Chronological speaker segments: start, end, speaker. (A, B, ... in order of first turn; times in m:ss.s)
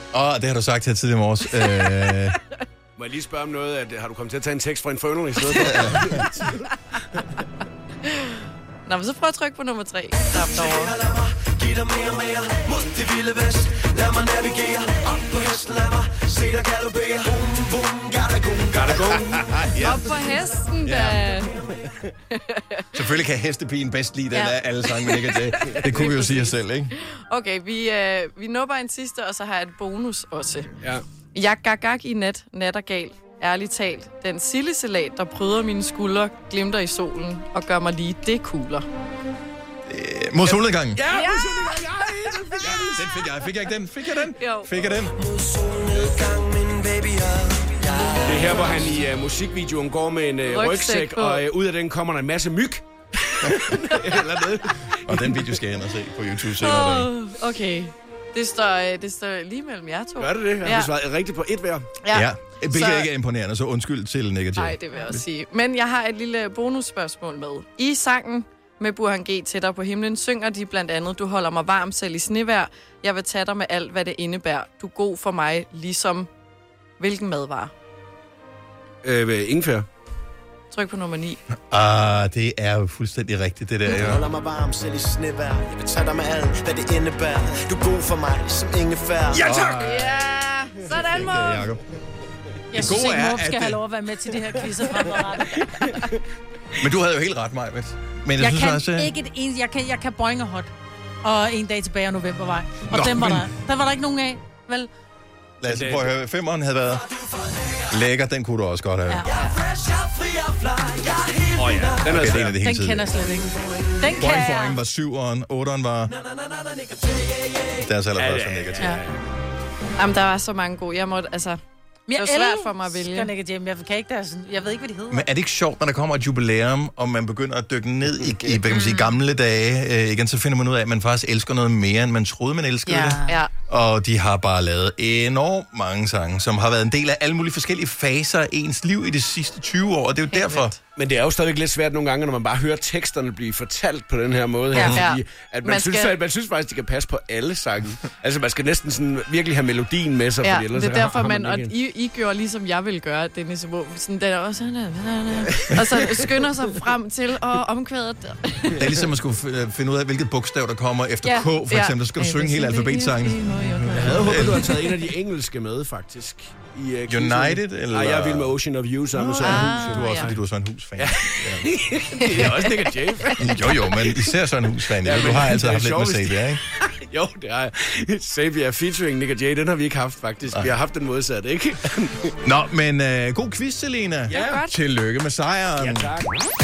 0:00.1-0:02.4 A
0:01.6-0:02.2 B
0:03.0-0:06.7 C
0:05.6-0:06.0 B
0:05.6-0:06.1 A
0:08.0-0:11.0 B
0:11.1-0:18.8 D
0:18.7-0:19.7 C
0:19.3-0:20.3 A
0:19.8-0:21.7 B
0:20.8-0:21.4 A
0:22.3-0:22.9 B
0:22.9-0:26.9 A
0:24.3-0:30.8 B
0:31.3-0:38.8 B
0:39.9-0:41.0 A
0:41.0-0:43.2 C
0:41.1-0:41.9 B
0:42.6-0:45.2 A
0:44.4-0:44.7 B
0:45.2-0:48.6 D
0:48.2-0:55.6 C
0:50.5-0:51.4 B
0:55.1-0:57.1 A
0:56.6-1:00.9 B
1:00.2-1:01.9 C
1:02.0-1:03.1 B
1:02.1-1:05.2 A
1:04.6-1:16.3 B
1:17.0-1:17.7 B
1:19.0-1:19.9 C
1:20.7-1:21.4 B
1:21.7-1:24.3 A
1:24.0-1:29.5 D
1:29.3-1:30.3 A
1:29.4-1:29.7 C
1:29.7-1:31.7 B
1:31.1-1:31.8 A
1:32.7-1:36.0 E
1:32.7-1:33.8 A
1:36.8-1:39.1 A
1:38.4-1:40.7 E
1:41.2-1:44.9 E
1:42.9-1:43.5 A
1:45.6-1:47.1 A
1:45.6-1:46.1 C
1:47.8-1:49.3 A
1:49.1-1:49.5 E
1:49.5-1:51.8 D
1:51.6-1:52.7 C
1:52.0-1:53.1 A
1:52.6-1:54.8 E
1:54.0-1:56.2 A
1:56.4-1:57.4 D
1:57.7-1:59.0 A
1:58.1-1:59.2 C
2:00.0-2:01.6 B
2:02.1-2:05.3 E
2:02.1-2:03.3 B
2:05.1-2:20.7 A
2:12.9-2:13.4 E
2:20.3-2:20.8 B
2:21.0-2:31.7 C
2:24.7-2:25.0 A
2:24.7-2:26.2 B
2:30.4-2:38.8 B
2:38.7-2:43.4 A
2:41.2-2:44.7 B
2:43.9-2:50.4 C
2:44.0-2:44.7 A
2:47.1-2:48.6 A
2:49.3-2:51.7 A
2:49.4-2:50.3 B
2:51.0-2:54.4 C
2:52.2-2:53.3 B
2:53.4-2:56.6 A
2:54.9-3:02.4 C
3:02.4-3:06.2 A
3:04.3-3:04.6 C
3:04.3-3:04.8 B
3:05.7-3:06.4 C